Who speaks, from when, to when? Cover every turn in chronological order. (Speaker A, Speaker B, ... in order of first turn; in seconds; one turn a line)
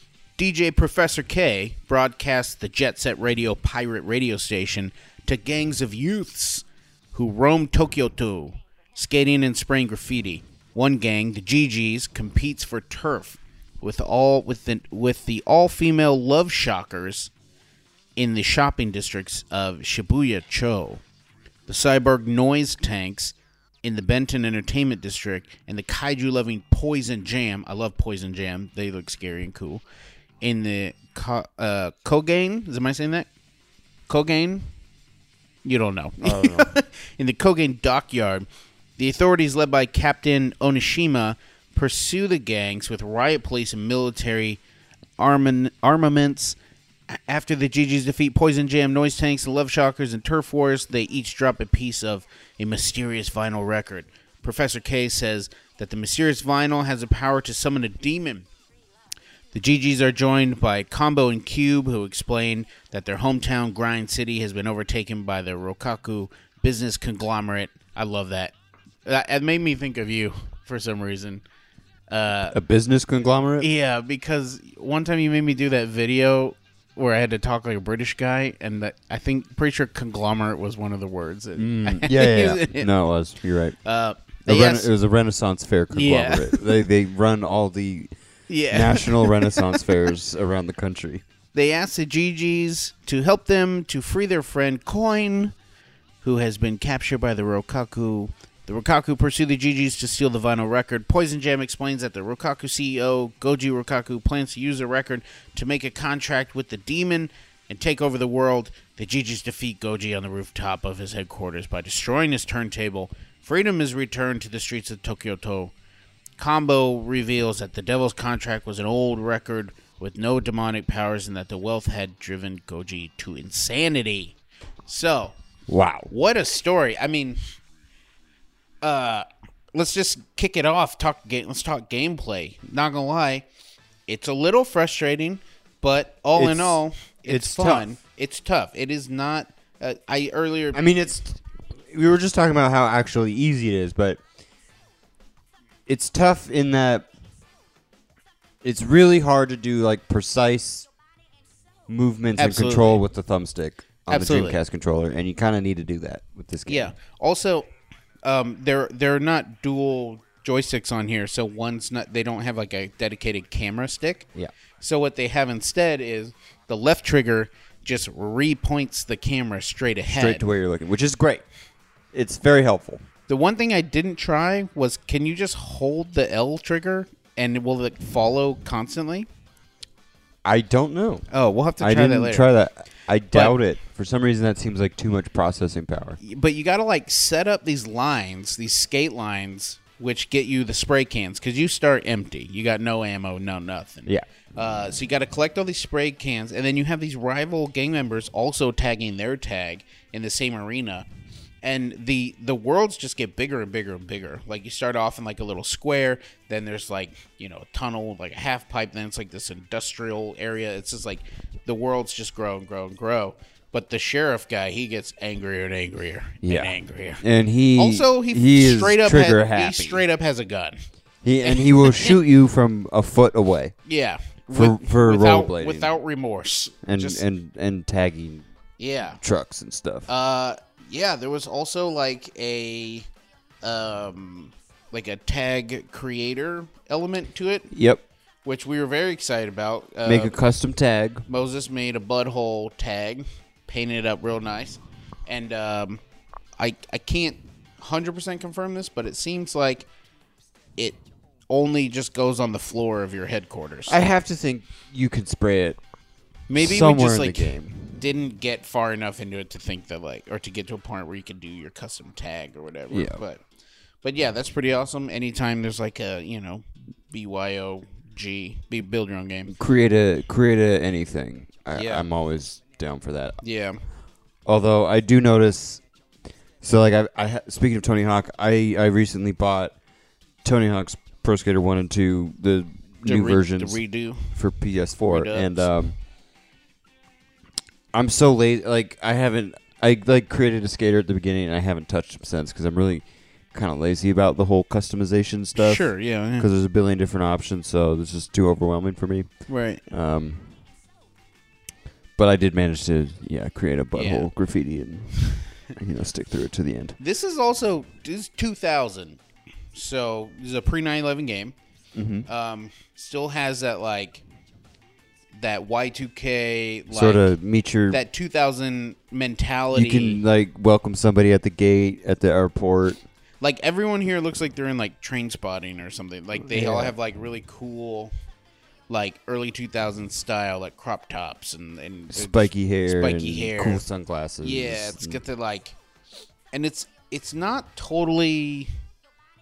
Speaker A: 0.4-17.3
Speaker A: 18.2-21.0
Speaker A: 21.7-29.8
Speaker A: 30.4-33.3
Speaker A: 34.1-34.7
Speaker A: 35.6-38.5
Speaker B: 36.2-36.7
Speaker A: 39.0-44.6
Speaker A: 45.2-46.6
Speaker A: 47.1-58.5
Speaker A: 59.5-71.4
Speaker A: 72.1-72.6
Speaker B: 72.5-73.7
Speaker A: 73.6-82.9
Speaker B: 81.6-83.8
Speaker A: 83.8-84.9
Speaker B: 84.5-88.1
Speaker A: 85.9-86.7
Speaker A: 88.5-89.8
Speaker B: 88.7-91.2
Speaker A: 91.5-95.5
Speaker A: 96.2-115.7
Speaker A: 116.4-124.4
Speaker A: 124.9-125.3
Speaker B: 125.7-126.1
Speaker A: 126.1-127.4
Speaker A: 128.8-133.5
Speaker A: 134.1-140.9
Speaker B: 136.3-137.9
Speaker B: 140.7-144.2
Speaker B: 145.9-147.1
Speaker B: 148.6-150.9
Speaker B: 151.9-156.9
Speaker A: 152.4-153.0
Speaker A: 154.1-154.6
Speaker A: 156.7-157.7
Speaker A: 158.2-164.3
Speaker A: 164.8-170.4
Speaker B: 170.1-171.4
Speaker B: 172.1-173.0
Speaker A: 173.3-179.3
Speaker B: 180.4-181.3
Speaker A: 181.3-182.5
Speaker B: 181.8-186.2
Speaker A: 183.3-183.6
Speaker A: 186.2-201.1
Speaker A: 201.6-217.2
Speaker B: 216.4-220.1
Speaker A: 217.8-220.8
Speaker B: 221.2-223.8
Speaker A: 221.4-222.2
Speaker A: 223.9-227.2
Speaker B: 224.5-225.9
Speaker B: 226.8-228.5
Speaker A: 228.8-229.2
Speaker B: 229.2-230.1
Speaker A: 230.1-233.1
Speaker A: 233.6-237.7
Speaker B: 237.7-238.0
Speaker A: 238.4-240.4
Speaker B: 240.1-241.2
Speaker A: 241.3-246.0
Speaker A: 246.6-249.9
Speaker A: 251.5-254.0
Speaker B: 253.9-255.8
Speaker A: 256.5-263.4
Speaker B: 256.6-258.0
Speaker B: 262.9-263.2
Speaker A: 264.0-269.6
Speaker B: 269.5-273.4
Speaker A: 271.7-272.1
Speaker A: 273.4-273.8
Speaker B: 274.5-275.8
Speaker B: 276.6-279.8
Speaker B: 280.4-286.0
Speaker A: 283.0-284.4
Speaker A: 285.0-285.7
Speaker B: 287.9-299.3
Speaker A: 295.6-296.5
Speaker A: 299.5-299.8
Speaker B: 299.9-300.6
Speaker B: 302.2-307.0
Speaker A: 303.9-304.3
Speaker A: 307.0-309.2
Speaker A: 309.7-311.6
Speaker B: 311.9-312.3
Speaker A: 312.3-314.2
Speaker A: 315.4-317.3
Speaker B: 316.9-318.0
Speaker A: 317.9-320.2
Speaker B: 319.7-323.0
Speaker A: 323.4-328.1
Speaker B: 326.4-326.9
Speaker A: 328.9-333.8
Speaker B: 332.1-335.2
Speaker A: 334.4-335.8
Speaker A: 336.5-338.7